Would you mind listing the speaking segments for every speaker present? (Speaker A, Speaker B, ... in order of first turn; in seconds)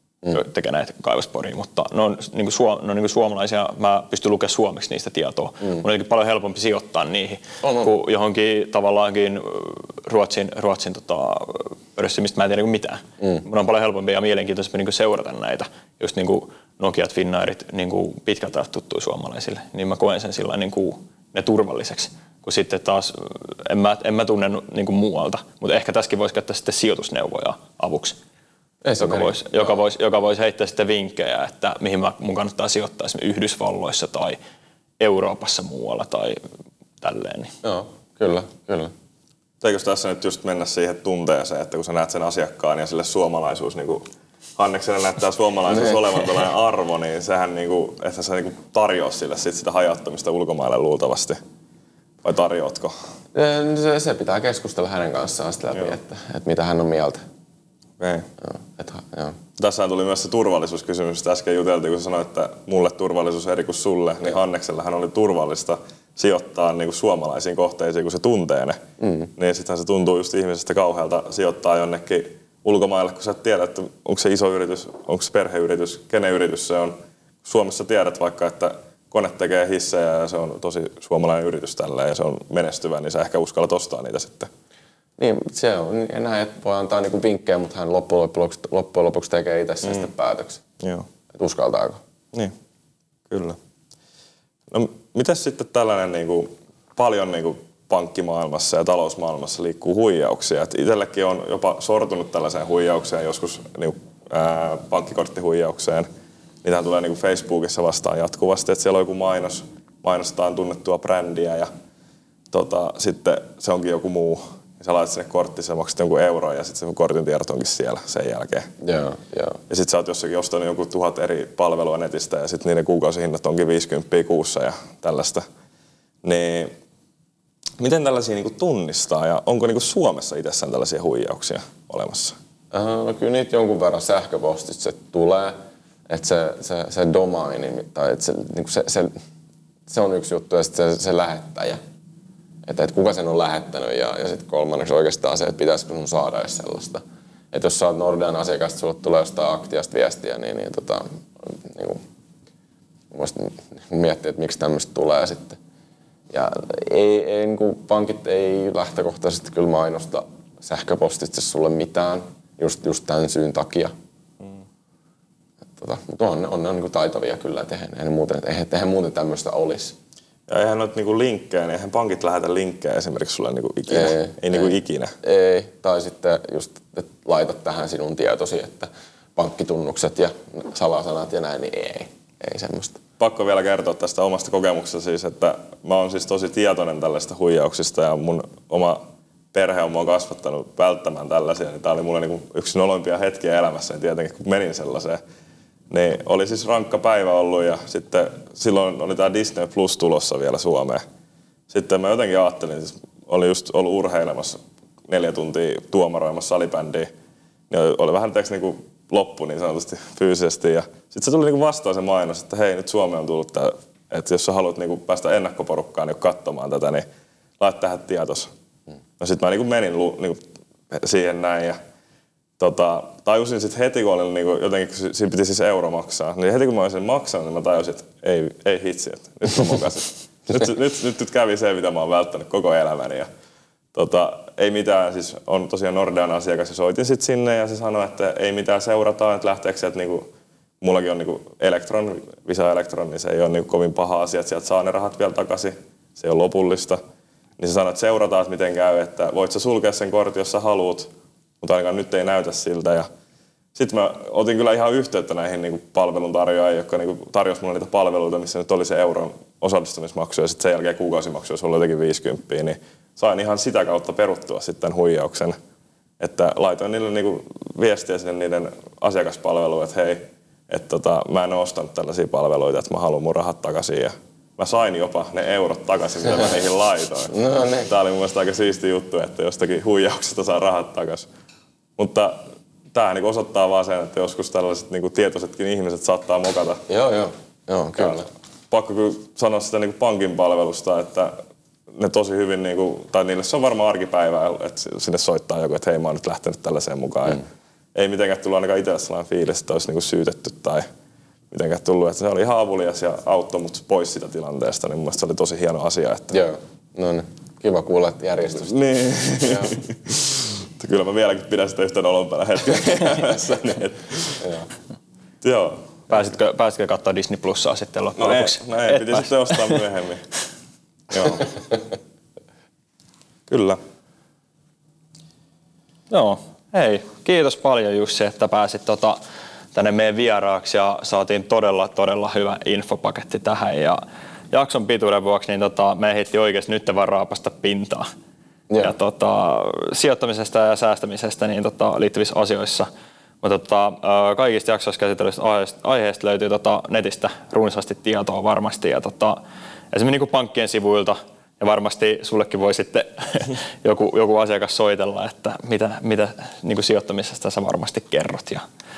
Speaker A: 0.3-28.2, 29.0-34.4, 35.0-36.4, 37.0-37.5, 316.1-319.8, 326.1-329.2, 329.7-338.1, 338.8-342.9, 343.4-349.4, 349.9-358.6
Speaker B: 7.6-7.9, 28.8-29.8, 37.6-38.9, 45.7-46.0, 53.3-57.2, 58.4-59.4, 69.0-69.3, 85.2-90.6, 91.3-92.0, 118.8-119.6, 132.7-135.5, 136.1-139.1, 139.9-141.8, 142.6-152.0, 153.1-155.6, 156.3-163.9, 165.8-170.0, 173.9-183.0, 277.3-277.9, 286.9-288.3, 306.3-308.7, 309.4-309.8, 314.4-314.7
Speaker C: 39.6-44.0, 44.6-51.4, 52.2-53.0, 58.0-58.3, 59.6-68.8, 69.3-84.5, 90.8-91.1, 93.3-93.6, 94.7-106.1, 106.6-111.7, 112.5-118.7, 119.7-125.4, 126.2-126.7, 127.8-132.3, 170.5-175.1, 183.2-189.0, 189.5-195.2, 195.9-201.0, 201.7-207.1, 207.7-217.1, 217.6-218.5, 219.2-221.8, 222.6-233.3, 233.9-240.3, 240.8-247.0, 247.6-253.1, 253.7-265.6, 266.2-281.3, 282.0-286.8, 288.7-291.4, 291.9-300.8, 301.5-306.4, 308.6-314.5, 315.4-315.9, 318.2-320.3, 321.1-321.5, 323.5-323.8